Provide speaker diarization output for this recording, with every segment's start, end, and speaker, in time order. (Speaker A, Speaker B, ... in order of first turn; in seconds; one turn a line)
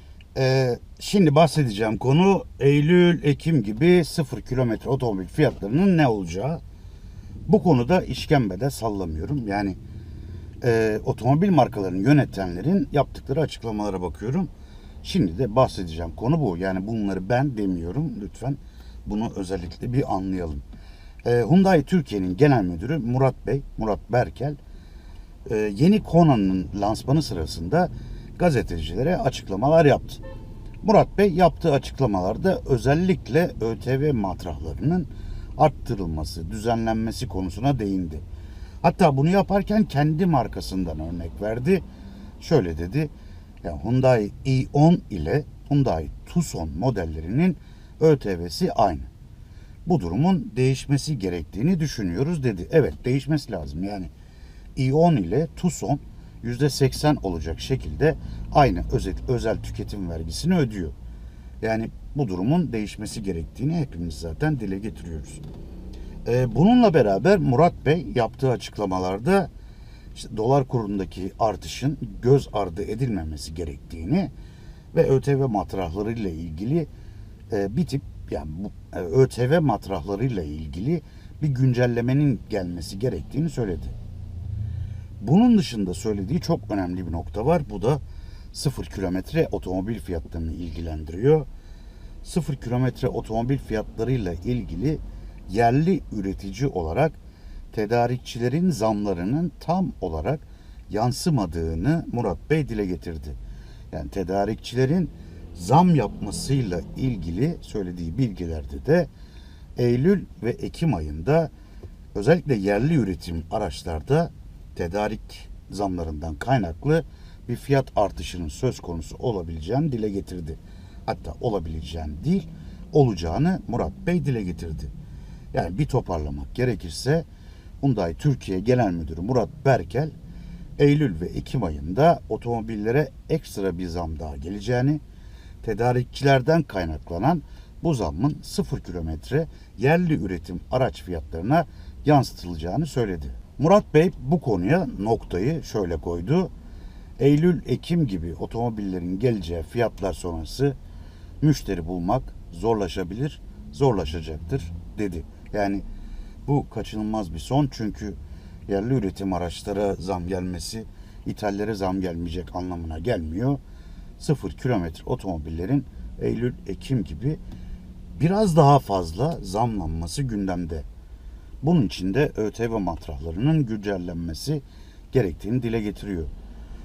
Speaker A: 0.3-6.6
Speaker A: 7.5-9.8
Speaker A: 10.6-14.5
Speaker A: 15.0-20.6
Speaker A: 21.2-24.6
Speaker A: 25.4-30.2
Speaker A: 30.8-38.2
Speaker A: 38.8-41.8
Speaker A: 42.4-43.1
Speaker A: 43.6-49.1
Speaker A: 49.8-54.1
Speaker A: 54.8-61.0
Speaker A: 61.6-65.4
Speaker A: 66.2-69.5
Speaker A: 70.1-74.3
Speaker A: 74.9-76.9
Speaker A: 77.5-84.0
Speaker A: 85.2-88.0
Speaker A: 88.5-91.5
Speaker A: 92.2-97.2
Speaker A: 97.7-103.4
Speaker A: 103.9-109.1
Speaker A: 109.8-111.5
Speaker A: 112.1-124.9
Speaker A: 125.5-127.3
Speaker A: 127.8-130.1
Speaker A: 130.8-135.0
Speaker A: 135.6-146.5
Speaker A: 147.2-150.8
Speaker A: 151.4-155.8
Speaker A: 156.4-163.6
Speaker A: 164.2-167.4
Speaker A: 168.2-170.9
Speaker A: 171.6-176.3